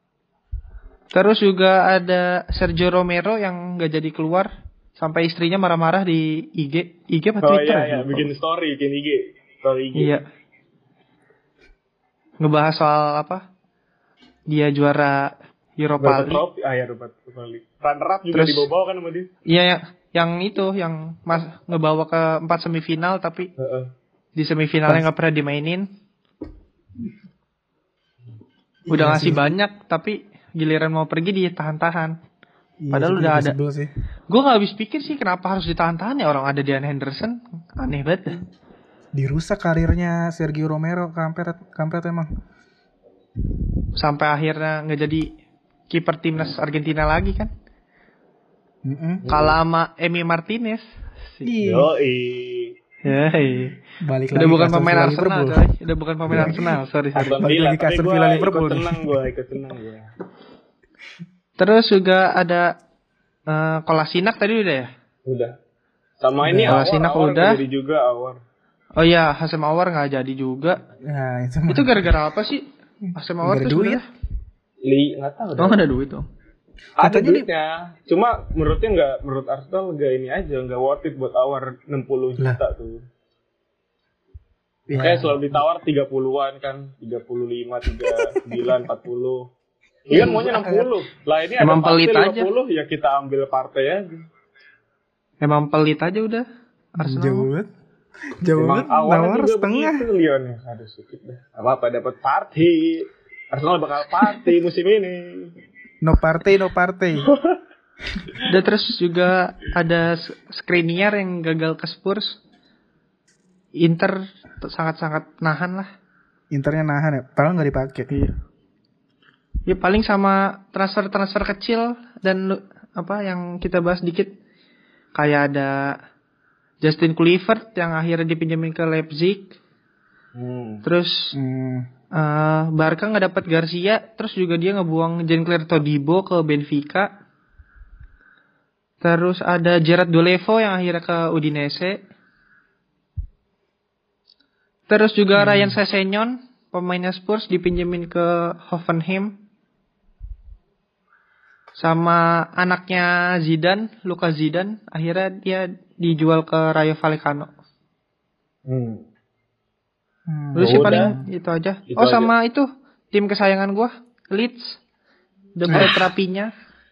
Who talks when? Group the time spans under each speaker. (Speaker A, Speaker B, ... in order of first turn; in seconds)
Speaker A: 1.1-8.3, 9.9-10.2, 12.4-13.4, 14.5-16.4, 18.3-18.7, 19.5-23.5, 24.4-25.9, 28.9-32.1, 32.9-33.5, 34.3-38.4, 43.9-45.4, 45.9-47.5, 49.3-51.5, 53.0-53.8, 54.3-57.4, 61.6-62.7, 63.5-64.9, 66.7-67.6, 69.0-70.8, 71.7-74.1, 75.6-76.2, 91.6-92.5, 95.4-96.5, 97.0-97.5, 108.5-112.4, 113.8-115.9, 118.1-118.3, 119.7-124.3, 125.2-126.0, 126.8-129.5, 130.8-131.3, 132.1-137.1, 139.0-142.0, 144.9-149.4, 151.8-157.5, 160.5-164.8, 165.6-166.5
Speaker B: 7.4-10.1, 16.0-19.3, 23.6-23.9, 49.2-49.5, 51.6-52.8, 57.2-60.1, 65.2-65.5, 66.2-68.4, 74.8-75.8, 77.0-83.0, 84.9-89.5, 90.1-94.2, 98.6-105.5, 107.2-107.6, 130.3-130.8, 158.7-159.1, 160.6-161.1, 161.9-162.3
Speaker C: 28.9-29.5, 32.8-33.9, 39.1-42.3, 48.8-49.3, 51.4-51.9, 54.0-55.6, 56.3-59.2, 66.4-66.8, 71.0-72.2, 73.4-74.0, 77.0-77.5, 84.9-85.6, 90.1-90.9, 97.0-97.7, 98.4-100.0, 106.0-107.3, 116.5-118.1, 131.3-131.9, 145.4-145.8, 160.3-161.2, 165.7-166.1